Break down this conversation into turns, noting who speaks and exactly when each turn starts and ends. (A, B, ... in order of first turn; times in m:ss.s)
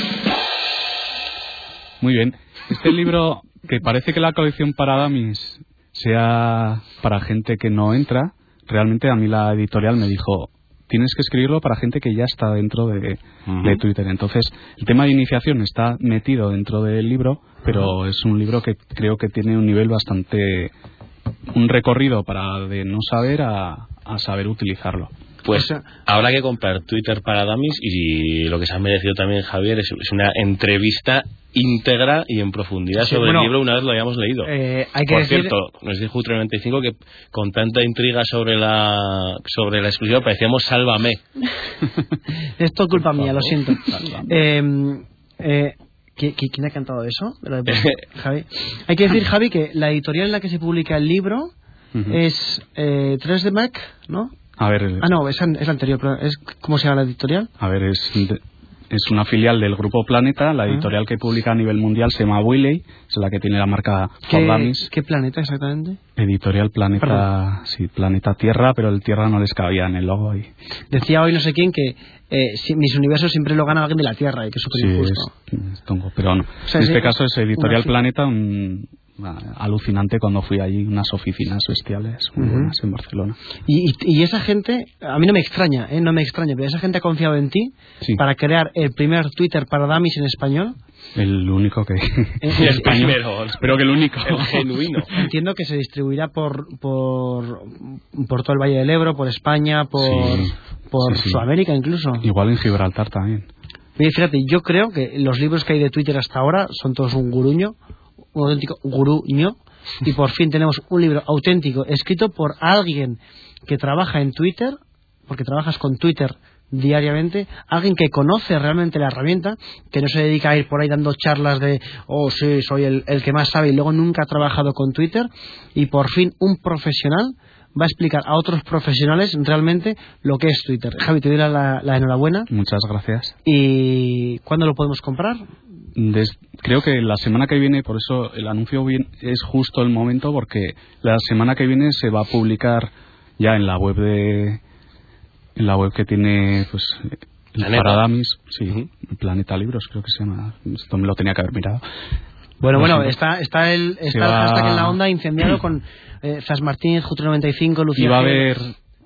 0:02.0-0:20.7 A
0:21.5-0:25.1 A
0:25.4-0:34.5 B
0:25.5-0:25.8 C
0:33.0-0:33.5 C
0:34.4-0:35.5 C
0:35.1-0:41.2 B
0:42.6-0:51.5 C
0:43.0-0:44.4 A
0:47.7-0:48.0 B
0:52.1-0:54.3 C
0:54.6-0:55.1 A
0:55.0-0:57.5 C
0:57.6-1:04.9 A
1:04.3-1:06.0 C
1:06.2-1:10.5 A
1:07.0-1:07.2 C
1:10.9-1:15.3 C
1:14.7-1:23.4 A
1:16.6-1:18.0 C
1:22.4-1:22.7 C
1:23.6-1:30.8 C
1:31.2-1:35.1 A
1:32.4-1:33.1 C
1:32.6-1:35.1 B
1:35.1-1:42.2 C
1:40.0-1:40.5 A
1:41.0-1:41.4 A
1:42.2-1:43.5 A
1:44.0-1:47.7 C
1:48.3-1:54.8 C
1:55.3-2:12.5 C
2:12.5-2:13.3 A
2:13.4-2:15.4 C
2:15.9-2:24.6 A
2:25.6-2:31.8 A
2:27.6-2:28.0 B
2:32.6-2:38.6 C
2:32.7-2:33.1 A
2:34.1-2:35.0 A
2:38.0-2:38.7 A